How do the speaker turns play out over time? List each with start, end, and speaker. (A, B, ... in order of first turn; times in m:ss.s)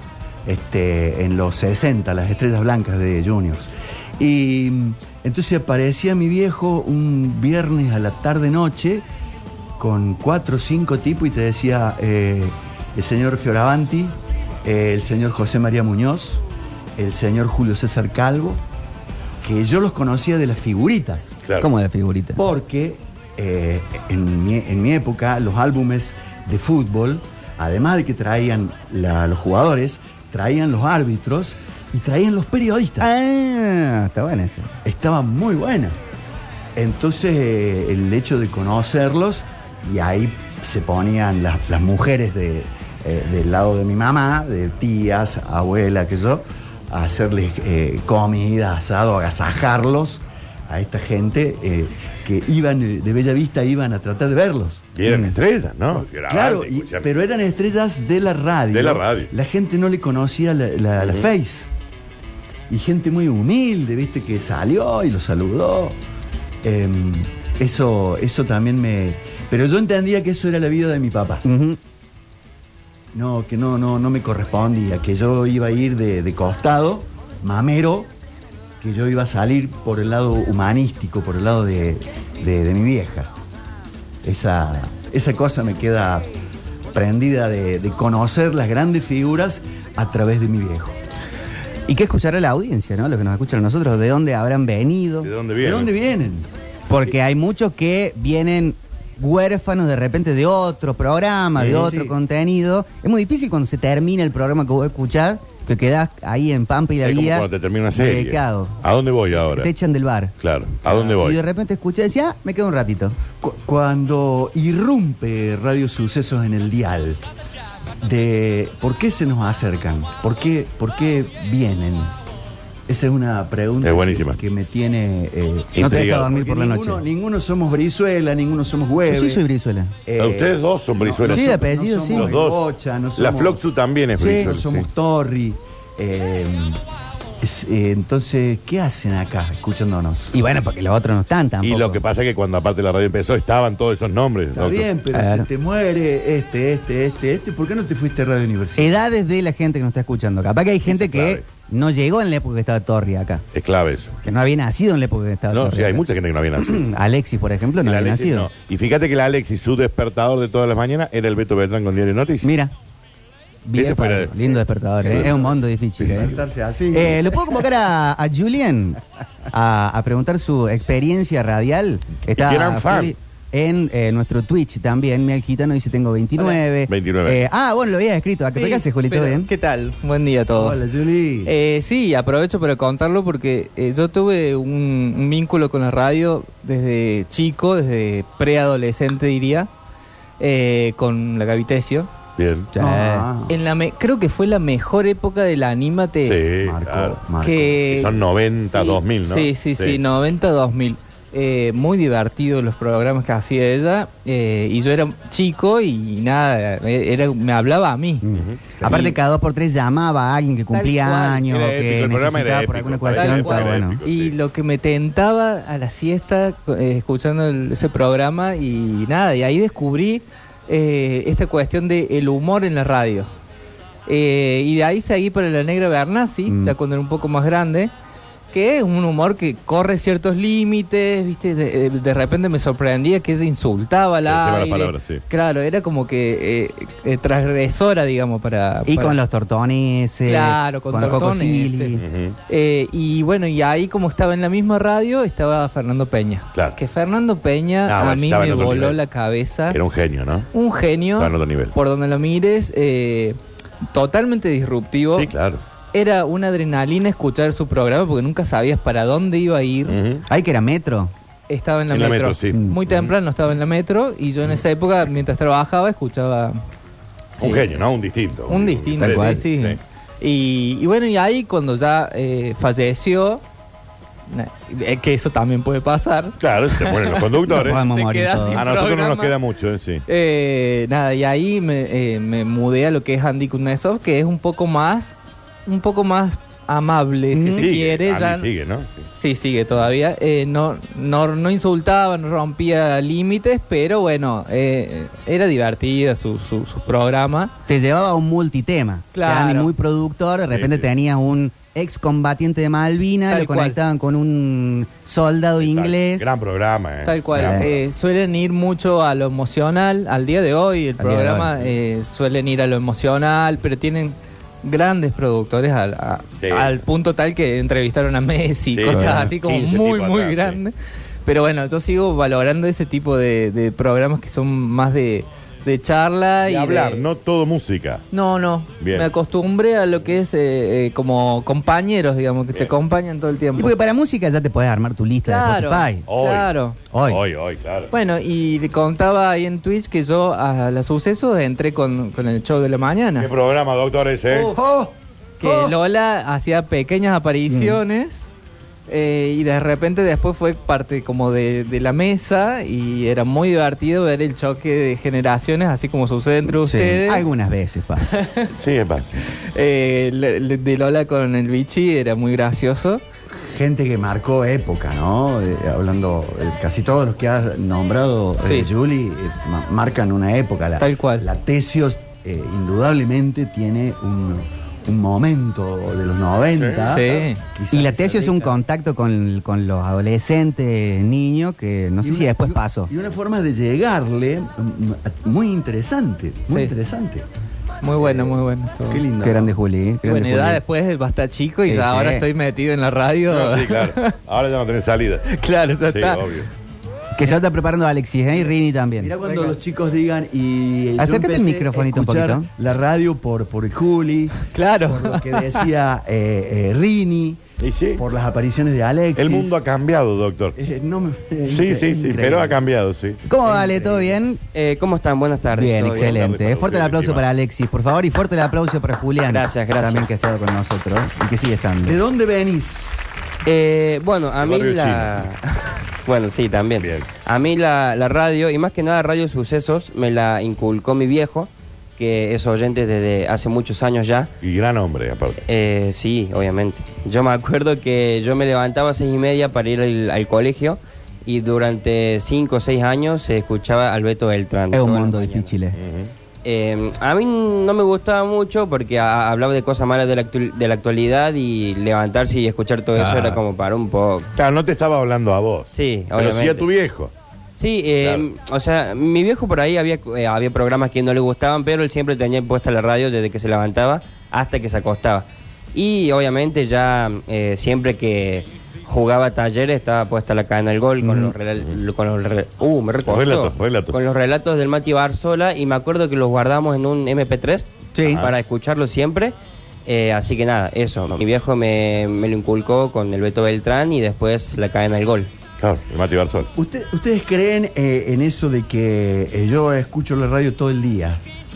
0:00.4-0:09.0 A
0:09.8-0:14.1 A
0:14.6-0:16.4 A
0:17.0-0:18.6 A
0:19.4-0:21.3 A
0:21.6-0:22.5 B
0:22.4-0:33.1 A
0:33.0-0:34.7 B
0:34.8-0:36.0 A
0:36.8-0:54.9 A
0:54.9-0:57.1 C
0:55.0-0:55.3 B
0:55.9-1:01.7 A
0:58.7-0:59.3 C
1:01.0-1:01.3 C
1:02.7-1:06.0 A
1:06.6-1:11.4 A
1:11.4-1:11.8 B
1:13.1-1:18.1 A
1:18.8-1:23.3 A
1:24.2-1:26.3 A
1:26.9-1:31.0 A
1:31.9-1:35.3 B
1:35.2-1:35.9 C
1:35.6-1:36.5 A
1:36.9-1:48.8 B
1:41.6-1:41.9 C
1:41.6-1:42.1 A
1:47.0-1:49.7 C
1:49.3-1:53.2 B
1:50.4-1:51.4 C
1:53.4-1:57.2 A
1:58.0-2:02.1 A
2:02.9-2:09.4 A
2:03.8-2:04.4 C
2:05.7-2:06.3 C
2:05.8-2:07.0 B
2:09.1-2:09.9 B
2:10.0-2:13.6 A
2:10.2-2:12.6 C
2:11.2-2:12.4 B
2:13.2-2:14.9 C
2:14.2-2:14.5 B
2:14.2-2:16.8 A
2:17.4-2:20.3 A
2:20.3-2:22.0 B
2:21.6-2:24.9 C
2:24.5-2:29.0 A
2:25.1-2:25.5 B
2:28.8-2:33.4 B
2:30.8-2:31.4 C
2:33.5-2:34.2 C
2:34.2-2:36.0 B
2:35.5-2:36.9 C
2:36.6-2:38.5 B
2:37.8-2:42.5 C
2:42.4-2:42.7 B
2:43.6-2:46.4 B
2:43.7-2:45.4 C
2:46.0-2:46.4 C
2:46.1-2:47.6 A
2:46.9-2:59.5 B
2:52.3-2:53.1 C
2:56.9-2:57.4 C
2:58.5-3:00.8 D
3:00.5-3:01.5 A
3:01.4-3:09.7 D
3:10.4-3:12.1 D
3:12.4-3:12.7 C
3:12.7-3:13.3 B
3:12.8-3:13.6 A
3:13.5-3:16.4 D
3:16.2-3:17.2 C
3:16.6-3:17.8 A
3:17.4-3:18.2 D
3:17.9-3:20.0 C
3:18.7-3:28.2 D
3:28.2-3:34.0 B
3:28.3-3:28.6 C
3:28.8-3:29.1 D
3:30.7-3:31.4 D
3:31.4-3:34.4 C
3:33.1-3:43.3 D
3:44.1-3:47.9 D
3:46.4-3:46.7 B
3:48.5-3:59.2 D
3:54.3-3:55.2 C
3:58.8-4:02.0 B
4:00.2-4:01.9 D
4:02.0-4:02.4 C
4:02.5-4:09.8 D
4:07.8-4:09.0 C
4:09.7-4:10.5 C
4:10.5-4:13.4 D
4:11.2-4:11.7 C
4:13.9-4:15.3 D
4:15.1-4:15.6 C
4:15.9-4:20.0 D
4:19.9-4:20.2 C
4:20.3-4:21.1 B
4:21.5-4:26.6 D
4:21.9-4:22.6 C
4:22.5-4:22.8 B
4:27.4-4:29.8 C
4:27.4-4:27.7 D
4:28.5-4:33.4 D
4:29.0-4:29.4 B
4:34.3-4:39.3 D
4:36.4-4:37.8 C
4:37.5-4:38.6 B
4:38.5-4:40.0 C
4:40.1-4:48.5 D
4:47.3-4:47.8 B
4:47.6-4:49.0 C
4:49.2-4:57.5 D
4:57.7-5:06.4 B
4:59.1-4:59.7 D
5:00.5-5:00.8 C
5:03.3-5:03.8 D
5:05.6-5:07.7 C
5:07.0-5:20.7 D
5:07.3-5:07.7 B
5:11.0-5:11.6 B
5:16.4-5:16.8 C
5:18.7-5:20.6 C
5:18.9-5:19.3 B
5:21.2-5:27.0 D
5:26.4-5:28.0 C
5:28.1-5:33.8 D
5:28.8-5:29.1 C
5:33.5-5:36.1 B
5:35.2-5:36.8 D
5:36.1-5:37.9 C
5:36.9-5:37.2 B
5:37.9-5:43.3 D
5:43.2-5:44.5 C
5:44.3-5:45.7 A
5:45.4-5:48.3 D
5:47.5-5:47.8 B
5:48.9-5:57.2 D
5:56.4-5:58.1 B
5:58.0-5:58.5 D
5:58.5-5:59.2 C
5:59.4-6:03.0 D
6:03.4-6:18.6 A
6:08.4-6:08.7 D
6:10.8-6:11.3 D
6:16.6-6:16.9 C
6:16.7-6:17.4 D
6:17.7-6:22.9 B
6:22.0-6:27.2 A
6:27.8-6:29.1 D
6:28.0-6:29.5 A
6:29.2-6:30.6 B
6:30.0-6:34.2 D
6:31.7-6:32.3 B
6:33.3-6:35.3 C
6:35.3-6:36.3 D
6:35.9-6:36.5 C
6:37.2-6:39.2 B
6:39.0-6:47.4 A
6:39.2-6:39.6 D
6:41.0-6:42.5 B
6:44.5-6:45.6 D
6:47.6-6:48.0 C
6:48.0-6:49.5 A
6:49.2-6:50.6 C
6:50.6-6:52.6 A
6:51.4-6:53.2 C
6:53.2-6:54.4 B
6:53.4-6:54.2 A
6:54.5-6:56.2 E
6:55.5-7:02.0 B
6:55.8-6:57.2 C
6:59.2-7:00.1 E
7:01.8-7:03.1 A
7:03.4-7:14.3 E
7:04.4-7:05.3 C
7:06.8-7:07.1 C
7:14.4-7:15.4 C
7:15.4-7:25.5 E
7:24.7-7:25.8 B
7:25.8-7:26.1 C
7:26.4-7:34.3 E
7:34.3-7:37.1 C
7:35.7-7:36.7 E
7:37.6-7:59.3 E
7:38.0-7:38.2 C
7:51.0-7:51.3 B
7:53.0-7:54.0 C
7:57.9-7:58.2 B
7:58.0-7:58.3 C
7:59.8-8:05.3 E
8:05.6-8:06.5 C
8:06.6-8:11.2 A